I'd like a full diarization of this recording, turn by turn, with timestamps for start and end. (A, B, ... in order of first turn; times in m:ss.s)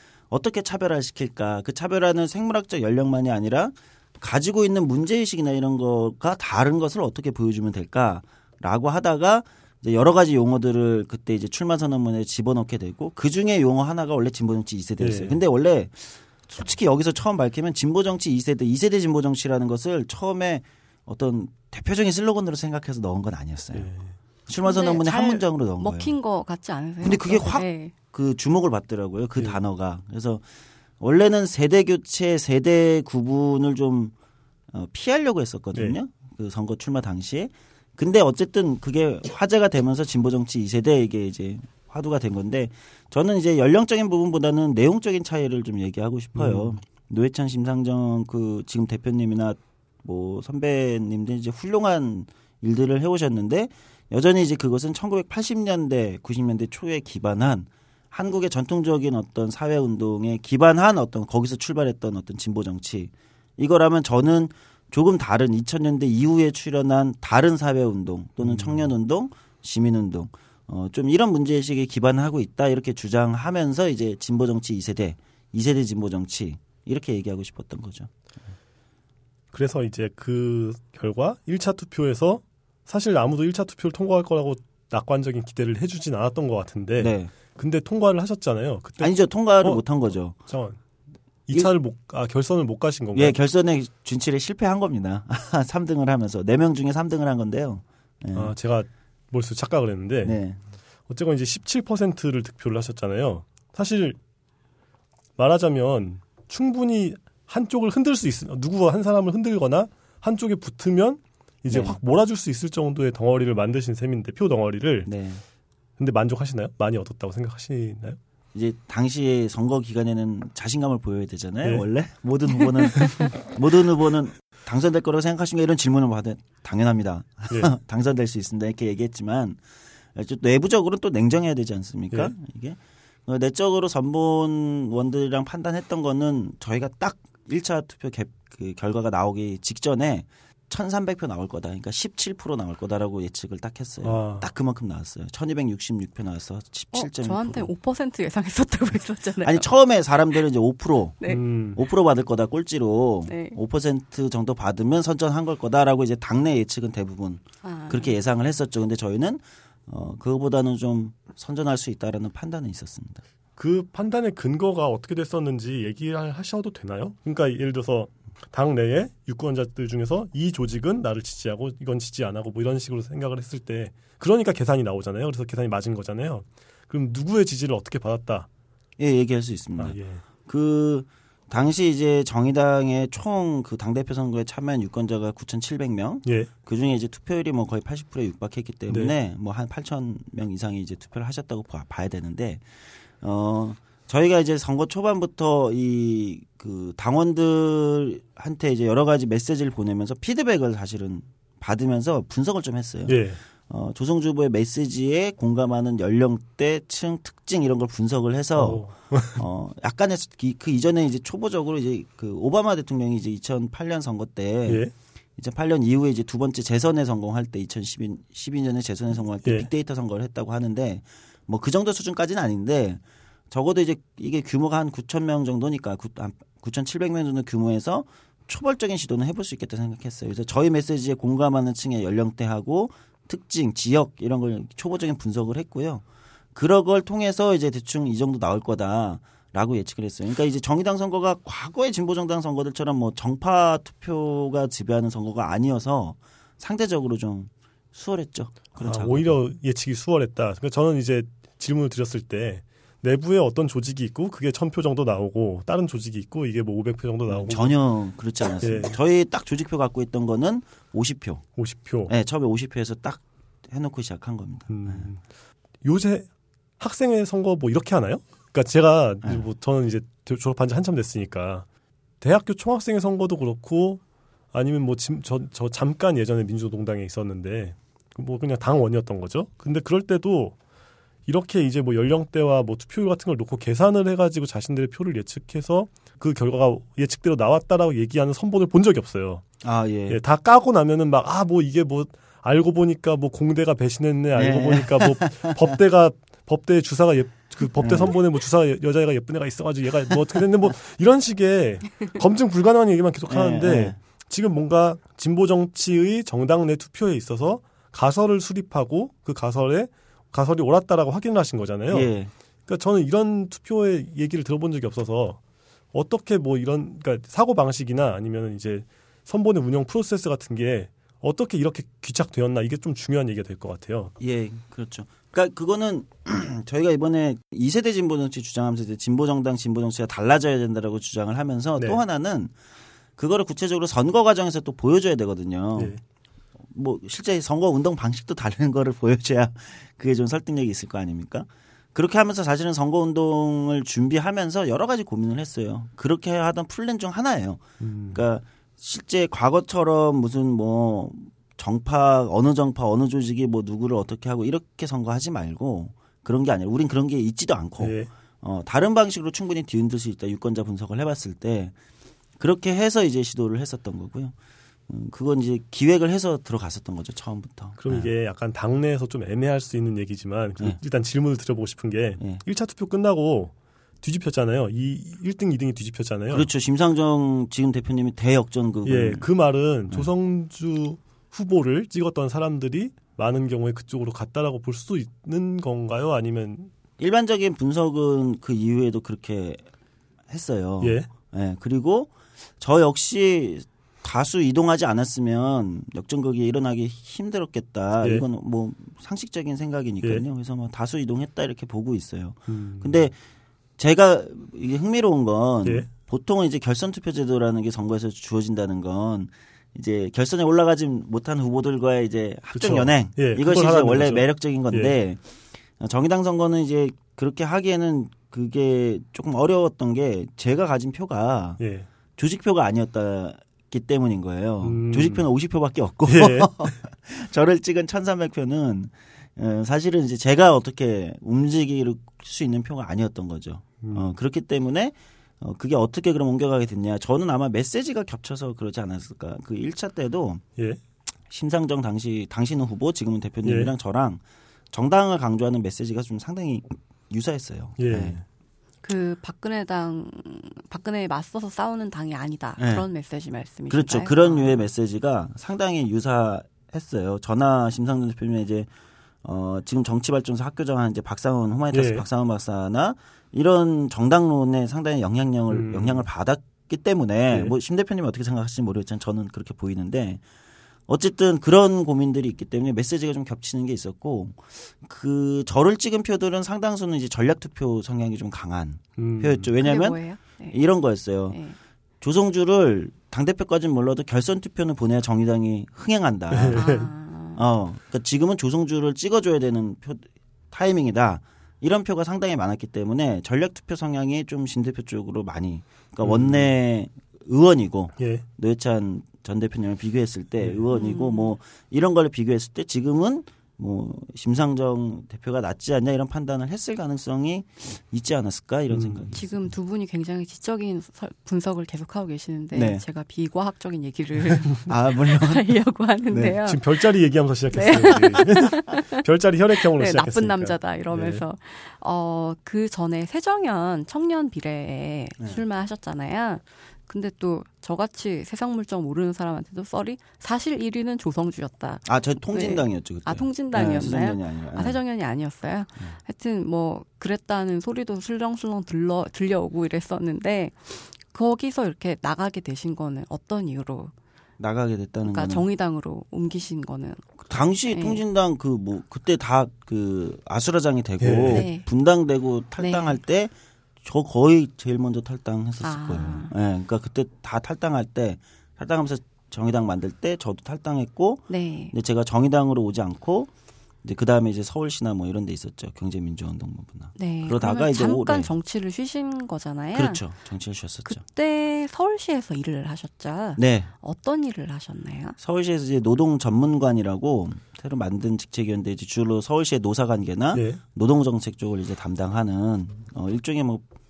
0:00.3-0:23.9 A
0:15.0-0:15.4 B
0:23.7-0:24.1 B
0:24.5-0:26.1 A
0:24.6-0:27.9 C
0:27.0-0:30.4 A
0:31.0-0:34.1 A
0:34.7-1:18.1 A
0:46.3-0:46.8 B
1:08.4-1:08.9 B
1:19.5-1:30.8 B
1:27.0-1:27.3 A
1:29.0-1:30.4 A
1:31.5-1:33.4 B
1:33.1-1:38.5 A
1:38.3-1:40.4 B
1:40.2-1:40.6 A
1:41.1-1:44.2 B
1:45.4-1:55.1 B
1:51.7-1:52.0 A
1:55.1-1:55.4 A
1:56.0-1:58.2 B
1:58.5-2:09.6 A
2:10.1-2:27.7 A
2:24.0-2:24.4 B
2:26.9-2:29.7 C
2:29.4-2:43.2 A
2:31.2-2:31.8 B
2:33.3-2:33.6 C
2:37.6-2:38.1 C
2:43.6-2:58.5 B
2:59.0-3:34.8 A
2:59.8-3:00.2 B
3:08.9-3:09.1 B
3:23.1-3:23.4 B
3:28.6-3:29.4 B
3:35.4-3:56.0 A
3:56.5-4:09.4 A
4:08.8-4:17.8 B
4:17.3-4:21.4 A
4:18.6-4:19.0 B
4:21.6-4:22.1 B
4:22.1-4:25.1 A
4:24.7-4:25.2 B
4:25.8-4:26.3 B
4:26.8-4:31.7 B
4:32.2-4:34.0 B
4:34.5-4:40.6 B
4:41.2-4:49.5 B
4:49.6-4:50.2 A
4:50.1-5:12.1 B
4:54.3-4:55.7 A
4:57.8-4:58.2 A
5:03.3-5:04.0 A
5:11.9-5:12.3 A
5:12.7-5:15.4 B
5:15.9-5:24.1 B
5:24.2-5:32.5 A
5:33.2-5:36.0 A
5:36.7-6:01.7 A
5:47.8-5:48.2 B
5:57.8-5:58.1 B
6:02.4-6:04.3 A
6:04.9-6:08.1 A
6:07.8-6:16.5 B
6:16.3-6:19.2 A
6:18.8-6:26.7 B
6:27.0-6:29.6 A
6:30.3-6:43.2 A
6:30.8-6:31.1 B
6:42.5-6:43.0 B
6:43.8-6:55.2 A
6:45.6-6:45.9 B
6:52.5-6:54.9 B
6:55.8-7:01.6 A
7:01.6-7:01.9 B
7:02.2-7:20.4 A
7:04.6-7:05.3 B
7:06.1-7:06.7 B
7:13.8-7:14.1 B
7:21.3-7:24.2 A
7:23.4-7:23.7 B
7:24.7-7:28.2 A
7:27.8-7:28.2 B
7:28.8-7:34.7 C
7:32.6-7:32.9 A
7:33.7-7:38.7 A
7:39.2-7:50.2 A
7:41.7-7:42.0 B
7:45.5-7:46.0 B
7:50.9-8:00.0 A
7:59.0-7:59.5 B
7:59.6-8:00.6 C
8:00.5-8:01.4 A
8:01.3-8:01.6 C
8:02.0-8:06.7 A
8:06.3-8:06.9 B
8:06.5-8:07.4 C
8:07.4-8:29.3 A
8:16.0-8:16.5 B
8:18.0-8:18.2 B
8:20.7-8:21.3 C
8:28.7-8:29.1 B
8:29.1-8:36.9 C
8:32.5-8:32.8 A
8:34.7-8:35.5 A
8:36.1-8:36.4 A
8:36.4-8:41.2 B
8:37.5-8:39.0 C
8:39.7-9:03.9 C
8:51.8-8:54.8 A
9:04.4-9:05.4 A
9:05.0-9:08.0 C
9:07.3-9:13.3 A
9:11.0-9:11.4 B
9:11.3-9:11.7 C
9:12.6-9:13.0 C
9:13.8-9:23.3 A
9:15.6-9:16.3 C
9:21.3-9:21.7 C
9:23.8-9:28.3 A
9:27.0-9:30.0 C
9:29.7-9:31.0 A
9:30.8-9:35.2 C
9:33.4-9:33.7 A
9:35.2-9:43.6 A
9:40.3-9:40.6 B